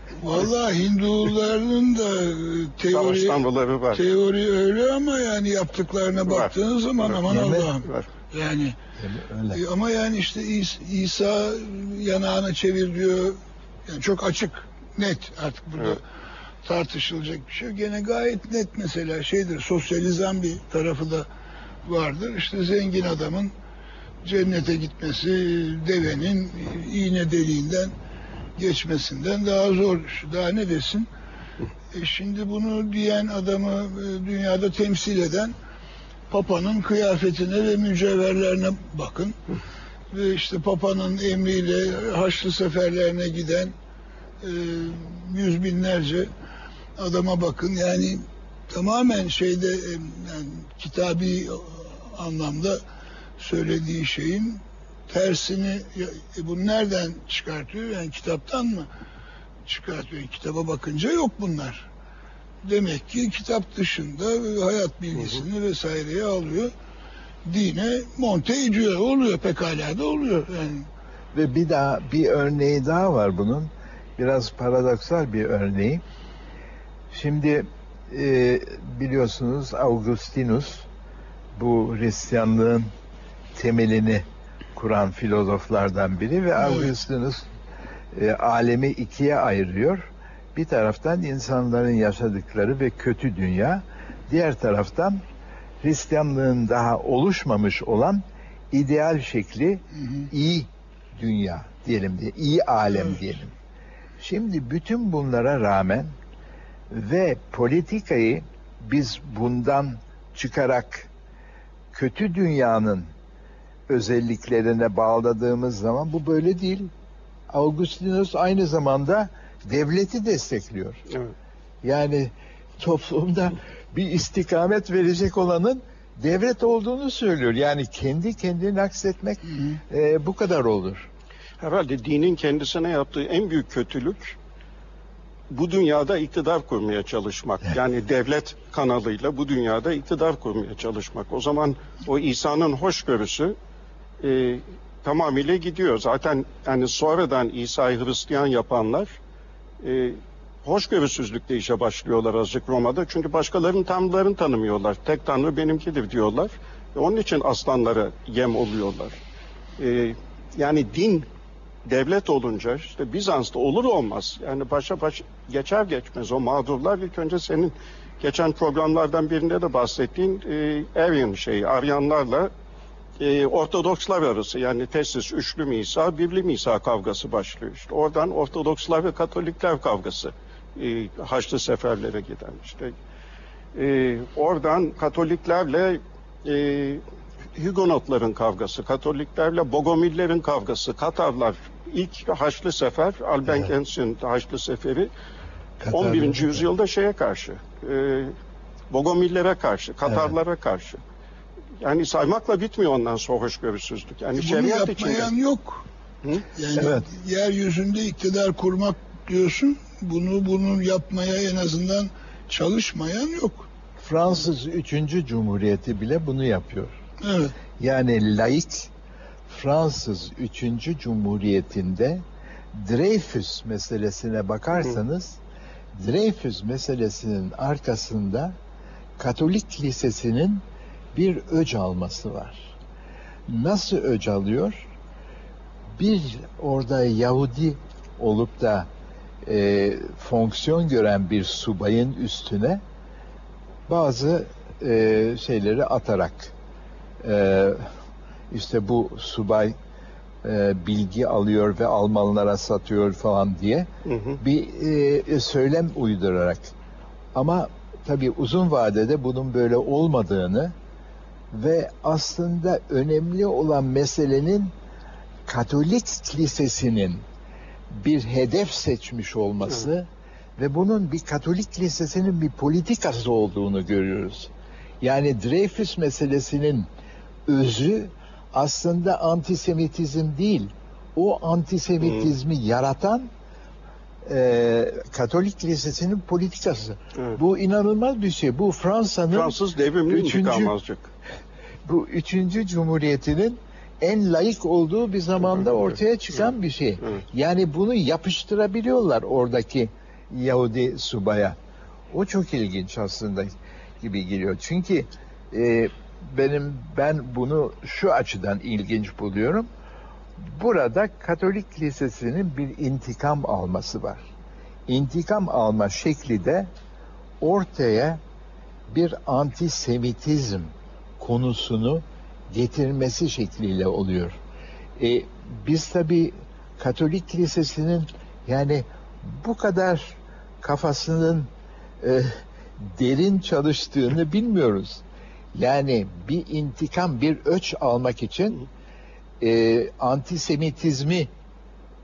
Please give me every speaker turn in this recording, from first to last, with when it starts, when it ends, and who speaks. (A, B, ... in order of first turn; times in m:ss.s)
0:00.2-0:08.8 A
0:02.9-0:04.0 B
0:06.3-0:07.2 B
0:07.3-0:07.7 C
0:07.8-0:08.1 B
0:09.0-0:09.6 C
0:09.5-0:16.0 A
0:16.6-0:21.3 A
0:21.8-0:23.5 A
0:24.2-0:27.9 A
0:28.6-0:31.1 A
0:31.9-0:35.5 A
0:36.3-0:39.4 A
0:40.1-0:43.7 A
0:44.4-0:46.3 A
0:47.0-0:52.8 A
0:53.4-0:58.9 A
0:59.6-1:01.9 A
1:02.6-1:06.7 A
1:05.2-1:05.4 B
1:07.4-1:10.9 A
1:11.3-1:16.0 C
1:17.1-1:20.9 C
1:21.5-1:22.9 C
1:23.5-1:27.5 C
1:26.6-1:26.9 A
1:28.1-1:35.2 C
1:35.8-1:43.5 C
1:40.0-1:40.3 A
1:44.2-1:46.2 C
1:46.9-1:51.1 C
1:51.9-1:53.1 C
1:53.9-1:56.9 C
1:57.5-2:01.0 C
2:01.8-2:11.1 C
2:11.6-2:14.4 B
2:15.5-2:23.5 B
2:24.2-2:29.1 B
2:29.8-2:39.2 B
2:39.8-2:41.2 B
2:41.8-2:52.5 B
2:53.2-3:02.9 B
3:03.7-3:07.0 B
3:07.6-3:15.1 B
3:15.8-3:16.6 C
3:15.9-3:18.3 B
3:18.9-3:21.0 B
3:20.0-3:20.3 C
3:21.8-3:25.3 B
3:24.4-3:25.8 A
3:26.5-3:33.7 A
3:26.7-3:27.0 C
3:34.0-3:37.0 C
3:37.2-3:37.6 A
3:37.8-3:38.9 C
3:39.5-3:45.4 C
3:45.9-3:48.6 C
3:49.2-3:52.7 C
3:53.5-3:54.9 C
3:56.0-3:58.9 C
3:59.4-4:02.8 C
4:03.9-4:06.5 C
4:07.2-4:07.9 C
4:08.5-4:09.7 C
4:10.4-4:13.9 C
4:14.0-4:14.4 B
4:14.4-4:16.7 C
4:17.3-4:20.7 C
4:21.5-4:24.7 C
4:25.5-4:27.2 C
4:27.9-4:36.9 C
4:37.5-4:43.3 C
4:44.2-4:49.6 C
4:49.3-4:51.1 B
4:50.1-4:50.7 C
4:51.8-5:01.6 C
5:02.1-5:09.7 C
5:10.4-5:14.3 C
5:14.9-5:16.7 C
5:17.4-5:18.2 C
5:18.9-5:24.4 C
5:25.0-5:31.5 C
5:32.0-5:35.0 C
5:35.5-5:38.6 C
5:39.4-5:41.3 C